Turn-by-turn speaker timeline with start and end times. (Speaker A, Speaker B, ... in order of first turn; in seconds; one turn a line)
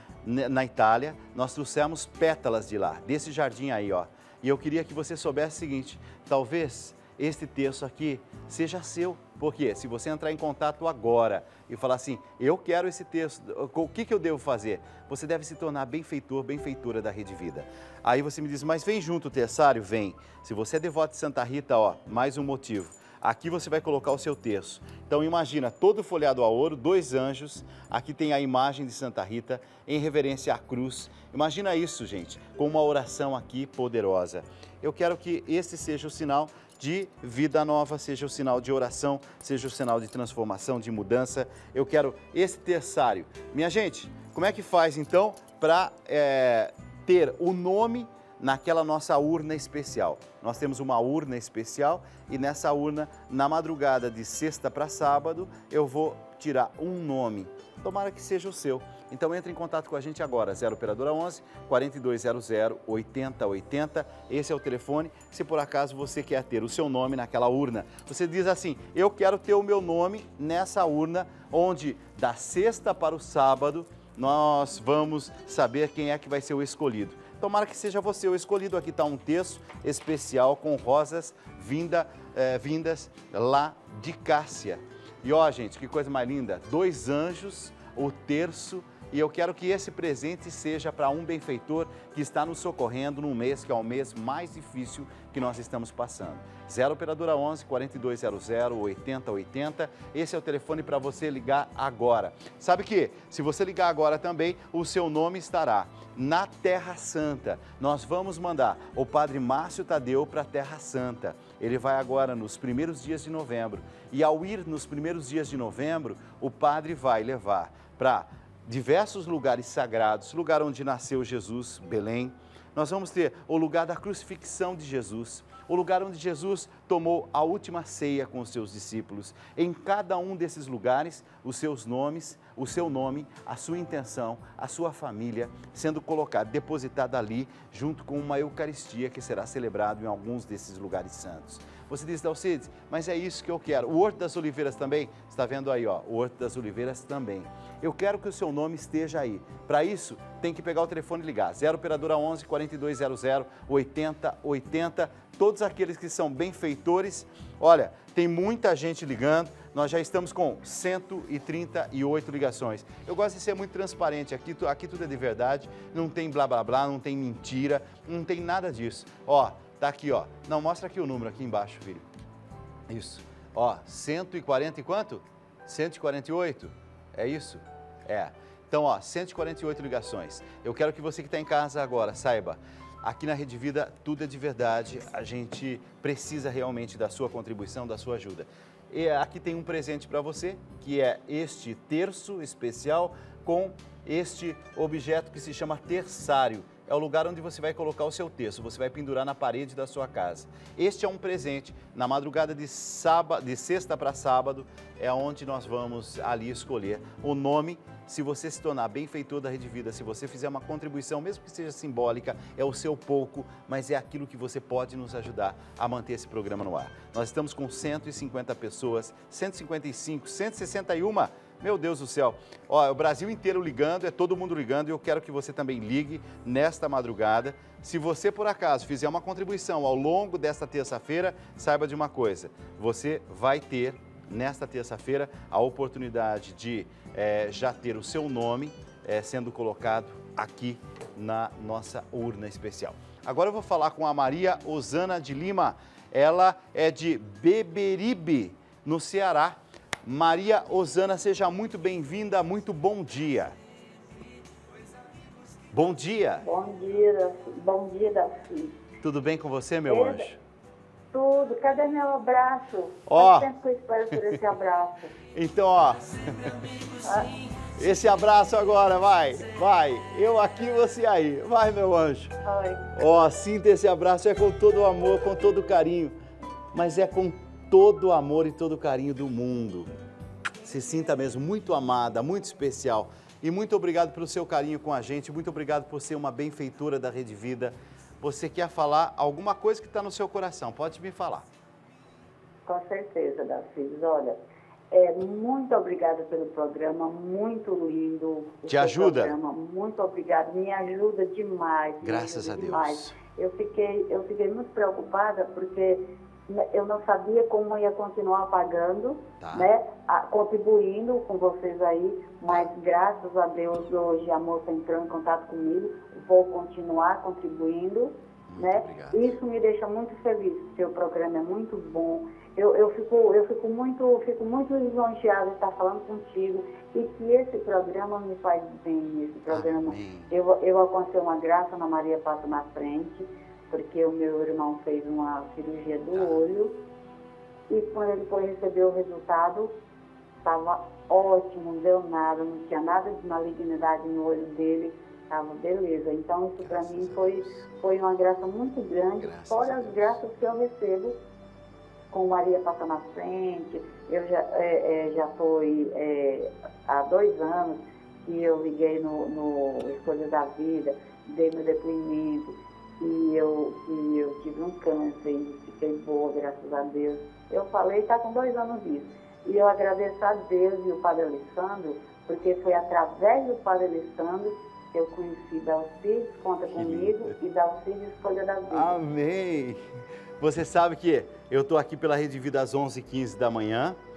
Speaker A: 0.2-172.1
Speaker A: 172.9-253.6
Speaker A: 255.7-256.4
Speaker B: 256.4-258.8
Speaker A: 259.0-260.4
Speaker B: 259.9-260.2
Speaker B: 261.1-265.1
Speaker A: 263.1-263.5
Speaker A: 264.1-264.4
Speaker A: 265.3-266.6
Speaker B: 267.0-267.3
Speaker A: 267.6-272.3
Speaker B: 272.4-272.9
Speaker A: 272.9-276.1
Speaker A: 276.7-279.9
Speaker A: 280.6-291.5
Speaker B: 292.6-294.4
Speaker B: 294.9-336.7
Speaker A: 298.7-299.3
Speaker A: 302.0-303.2
Speaker A: 309.4-309.7
Speaker A: 318.5-319.4
Speaker A: 329.5-330.3
Speaker A: 336.1-336.4
Speaker B: 337.7-339.7
Speaker B: 340.4-351.2
Speaker A: 346.6-347.6
Speaker A: 349.2-350.2
Speaker B: 352.1-379.0
Speaker A: 376.7-377.3
Speaker A: 378.7-379.8
Speaker A: 380.4-384.0